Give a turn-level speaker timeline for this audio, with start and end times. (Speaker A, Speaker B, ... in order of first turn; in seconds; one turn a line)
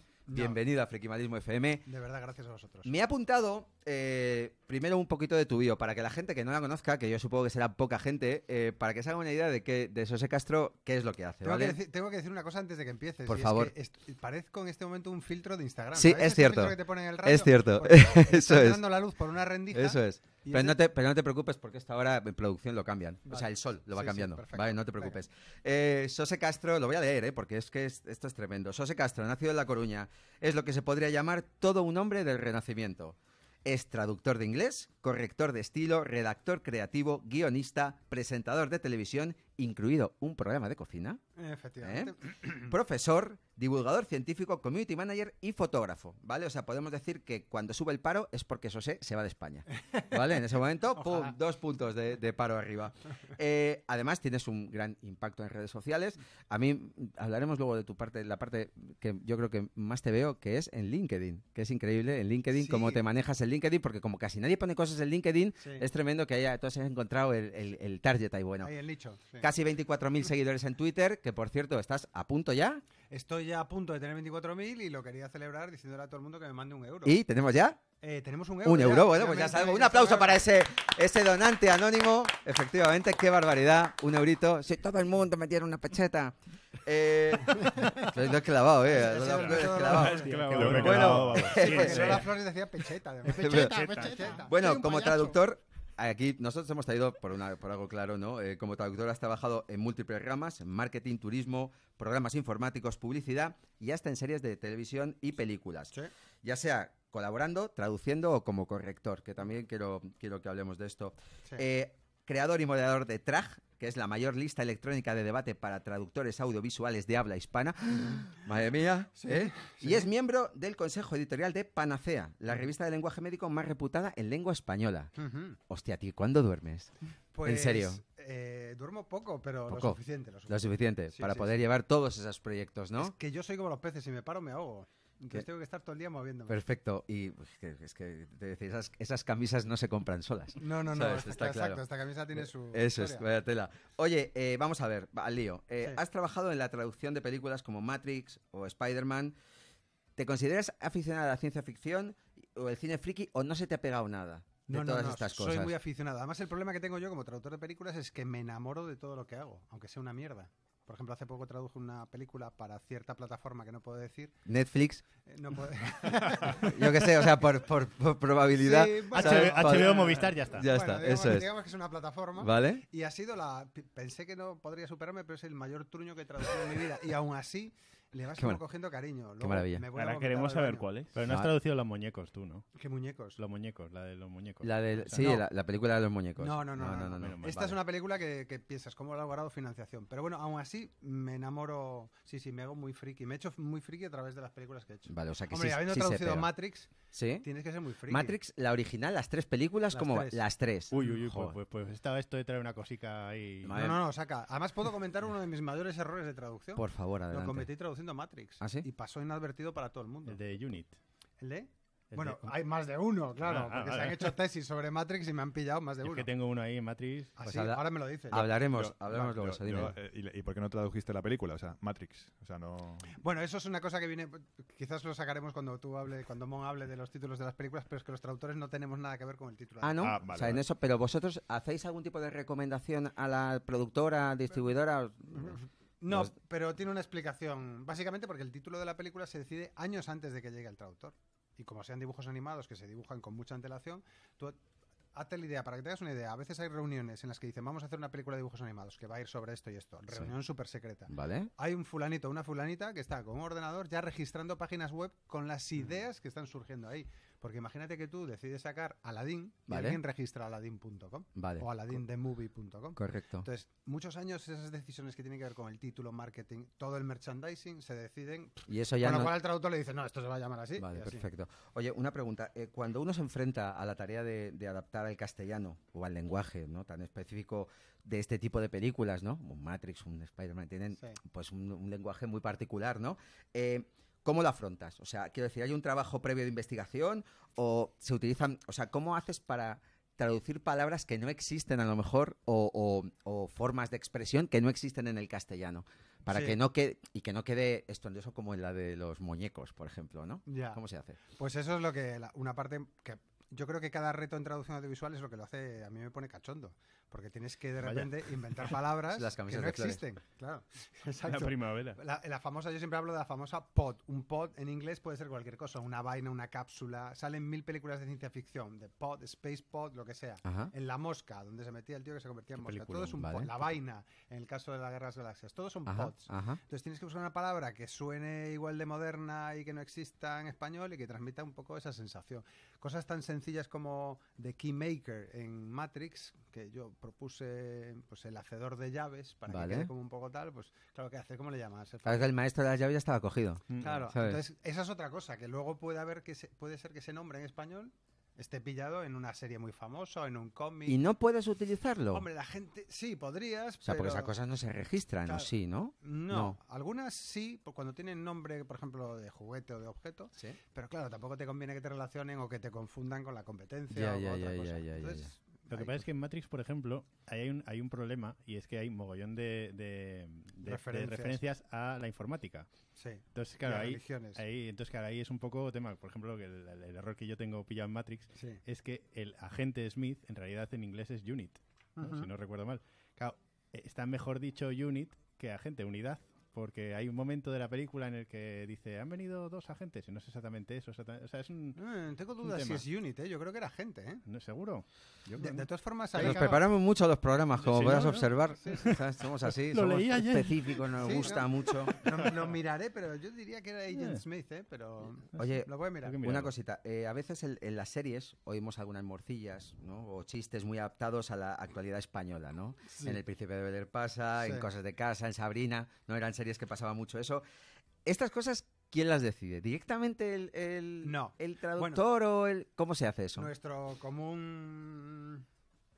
Speaker A: 0.3-0.6
Speaker B: 0.3-1.8
Speaker A: 1.9-2.9
Speaker B: 2.8-11.8
Speaker A: 11.4-20.8
Speaker B: 13.3-13.7
Speaker B: 15.9-18.8
Speaker B: 19.7-41.2
Speaker A: 23.3-25.2
Speaker A: 41.4-42.7
Speaker B: 41.8-68.7
Speaker A: 49.9-50.4
Speaker A: 51.0-51.3
Speaker A: 62.5-63.0
Speaker A: 65.6-65.8
Speaker A: 68.6-69.4
Speaker B: 69.4-72.8
Speaker A: 73.1-77.1
Speaker B: 77.0-77.8
Speaker A: 78.0-80.4
Speaker B: 78.6-92.2
Speaker A: 88.9-90.4
Speaker C: 89.8-92.2
Speaker D: 90.4-92.1
Speaker E: 90.6-91.3
Speaker A: 91.5-95.3
Speaker E: 93.2-95.3
Speaker B: 93.4-93.7
Speaker C: 93.7-94.4
Speaker B: 94.5-105.9
Speaker B: 106.4-125.1
Speaker A: 119.2-120.1
Speaker A: 125.2-125.6
Speaker B: 125.7-126.9
Speaker A: 127.3-131.6
Speaker B: 127.4-128.0
Speaker B: 129.7-129.9
Speaker B: 130.5-133.1
Speaker A: 133.0-136.6
Speaker B: 136.5-141.8
Speaker A: 140.6-143.2
Speaker B: 142.4-149.3
Speaker B: 150.2-155.7
Speaker A: 154.7-164.3
Speaker B: 164.4-165.0
Speaker A: 165.3-167.2
Speaker B: 166.5-171.5
Speaker A: 168.6-180.9
Speaker E: 169.1-170.7
Speaker B: 172.4-172.8
Speaker B: 179.4-179.8
Speaker C: 179.9-181.1
Speaker E: 181.1-182.6
Speaker B: 181.3-181.5
Speaker A: 182.8-183.4
Speaker E: 183.4-185.3
Speaker B: 184.6-187.8
Speaker A: 185.2-185.4
Speaker A: 186.4-198.3
Speaker B: 195.1-196.5
Speaker B: 197.1-197.4
Speaker B: 198.1-201.5
Speaker A: 199.9-200.4
Speaker E: 200.9-203.8
Speaker B: 203.6-204.0
Speaker A: 203.7-210.4
Speaker B: 206.8-207.7
Speaker B: 208.6-208.8
Speaker E: 210.3-211.0
Speaker A: 211.4-216.3
Speaker E: 212.1-212.6
Speaker E: 213.4-214.3
Speaker E: 216.0-217.3
Speaker A: 217.4-218.4
Speaker B: 217.4-219.9
Speaker D: 218.4-223.1
Speaker A: 223.2-230.1
Speaker B: 229.8-235.6
Speaker D: 230.0-230.6
Speaker A: 235.3-244.6
Speaker A: 245.1-271.2
Speaker B: 251.1-251.5
Speaker B: 259.7-260.0
Speaker B: 261.4-261.9
Speaker B: 262.9-263.5
Speaker B: 268.7-269.4
Speaker B: 270.8-301.2
Speaker A: 296.3-296.6
Speaker A: 300.4-300.8
Speaker A: 301.4-342.3
Speaker E: 307.8-308.1
Speaker B: 309.1-310.0
Speaker C: 311.2-312.0
Speaker B: 320.4-320.7
Speaker B: 322.7-323.5
Speaker B: 325.9-326.6
Speaker B: 339.5-339.9
Speaker B: 342.0-344.4
Speaker E: 343.7-344.1
Speaker A: 343.8-351.0
Speaker B: 350.9-352.2
Speaker A: 352.1-354.3
Speaker B: 353.8-356.6
Speaker A: 356.0-366.0
Speaker B: 363.9-365.3
Speaker E: 365.7-372.7
Speaker A: 370.6-371.4
Speaker A: 373.0-374.4
Speaker E: 373.3-391.8
Speaker A: 378.4-378.6
Speaker A: 382.0-382.3
Speaker A: 391.8-394.2
Speaker E: 392.4-392.8
Speaker E: 394.2-396.6
Speaker A: 395.4-396.5
Speaker B: 396.2-401.9
Speaker E: 397.6-399.0
Speaker A: 398.6-398.9
Speaker E: 399.7-400.9
Speaker A: 401.0-406.1
Speaker E: 403.9-404.2
Speaker B: 405.4-405.7
Speaker E: 406.0-406.5
Speaker B: 406.2-417.4
Speaker A: 412.9-413.2
Speaker B: 418.0-423.5
Speaker A: 421.0-422.0
Speaker A: 423.4-425.4